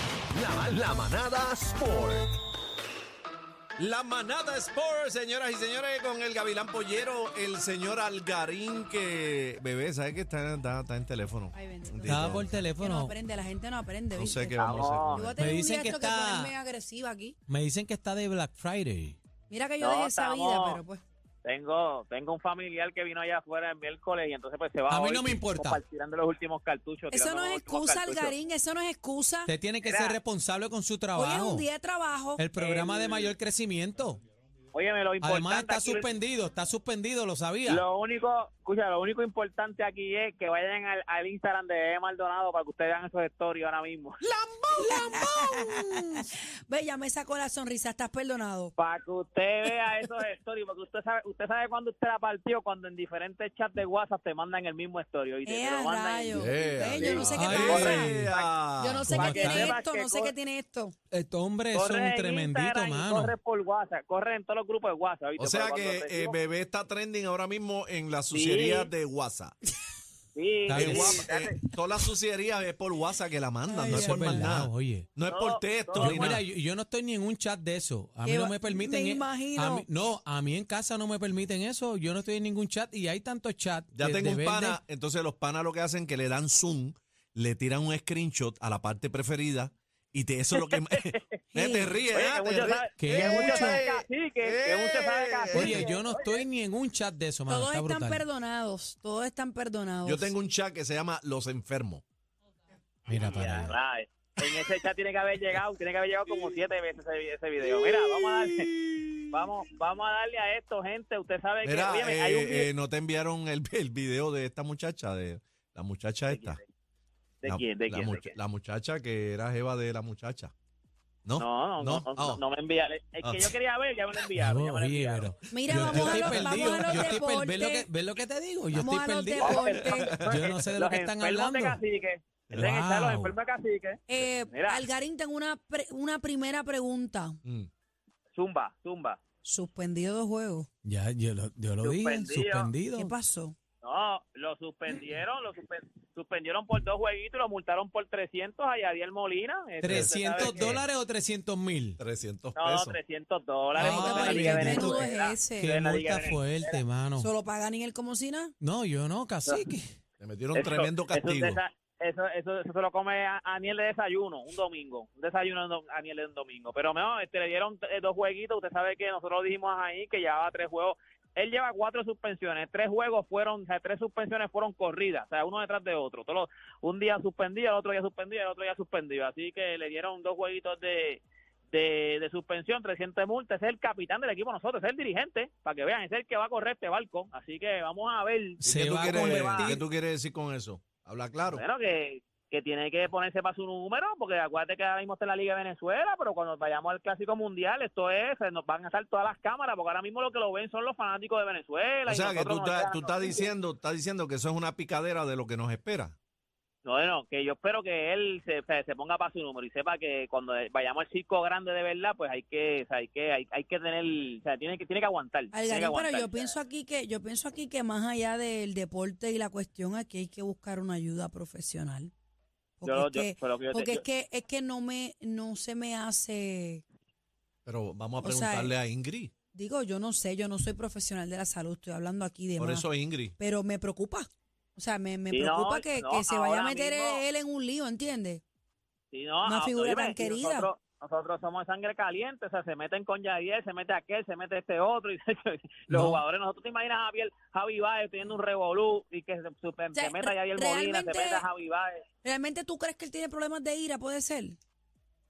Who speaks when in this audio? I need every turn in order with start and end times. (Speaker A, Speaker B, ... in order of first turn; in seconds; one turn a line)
Speaker A: 0.3-2.3
Speaker B: 3.8-12.5
Speaker C: 11.5-17.4
Speaker D: 12.1-13.1
Speaker B: 14.1-15.3
Speaker E: 14.6-15.3
Speaker D: 15.4-16.5
Speaker D: 17.5-19.2
Speaker C: 19.5-21.0
Speaker E: 19.8-20.8
Speaker E: 21.4-28.3
Speaker D: 24.9-25.8
Speaker C: 27.1-29.5
Speaker D: 29.4-31.7
Speaker E: 29.8-30.2
Speaker C: 31.1-32.5
Speaker D: 32.4-34.2
Speaker E: 32.6-33.3
Speaker E: 34.7-36.1
Speaker D: 35.2-37.8
Speaker E: 37.6-44.1
Speaker A: 44.2-46.0
Speaker C: 44.7-48.7
Speaker E: 48.8-58.5
Speaker C: 55.4-58.1
Speaker B: 56.3-59.1
Speaker D: 57.3-58.3
Speaker C: 58.8-61.0
Speaker D: 59.0-59.8
Speaker E: 59.1-60.3
Speaker D: 61.1-63.3
Speaker E: 61.7-66.3
Speaker B: 65.4-69.5
Speaker E: 68.3-68.9
Speaker E: 70.3-71.6
Speaker D: 70.7-71.2
Speaker B: 70.7-76.4
Speaker C: 73.7-74.4
Speaker D: 73.9-75.1
Speaker E: 75.2-76.2
Speaker D: 76.0-84.8
Speaker C: 78.2-79.8
Speaker B: 83.9-95.9
Speaker E: 90.5-91.2
Speaker C: 91.5-91.9
Speaker E: 92.1-96.4
Speaker D: 93.0-93.8
Speaker D: 95.5-98.2
Speaker C: 97.5-100.3
Speaker B: 100.0-102.0
Speaker D: 103.1-103.7
Speaker E: 103.1-108.7
Speaker B: 107.6-109.4
Speaker E: 109.3-112.7
Speaker B: 111.6-116.6
Speaker E: 116.3-116.6
Speaker E: 117.4-118.3
Speaker B: 117.5-120.5
Speaker B: 121.2-122.4
Speaker E: 121.4-125.3
Speaker B: 123.2-123.5
Speaker D: 124.4-129.6
Speaker C: 125.5-127.9
Speaker B: 125.8-126.7
Speaker C: 128.7-130.2
Speaker E: 129.4-134.8
Speaker B: 129.8-130.4
Speaker D: 130.2-131.8
Speaker D: 132.5-133.3
Speaker C: 134.1-137.4
Speaker E: 138.3-139.2
Speaker C: 139.4-140.7
Speaker D: 140.8-143.1
Speaker E: 141.8-142.7
Speaker C: 142.9-143.5
Speaker E: 143.8-150.8
Speaker D: 149.8-152.0
Speaker B: 149.9-150.8
Speaker B: 152.0-153.0
Speaker E: 152.6-156.8
Speaker D: 153.8-157.3
Speaker C: 153.8-155.7
Speaker C: 157.2-158.5
Speaker D: 158.6-159.8
Speaker B: 160.2-161.6
Speaker E: 160.5-189.7
Speaker D: 188.6-189.8
Speaker B: 188.6-191.6
Speaker E: 191.5-203.5
Speaker B: 202.1-206.2
Speaker E: 206.8-216.5
Speaker C: 215.5-222.1
Speaker C: 222.8-226.8
Speaker E: 222.8-224.0
Speaker B: 227.7-229.3
Speaker C: 228.2-228.7
Speaker C: 229.5-238.4
Speaker B: 232.6-233.3
Speaker E: 235.3-237.2
Speaker E: 239.1-252.0
Speaker C: 239.4-240.7
Speaker D: 245.9-246.2
Speaker C: 249.9-251.4
Speaker C: 252.2-254.6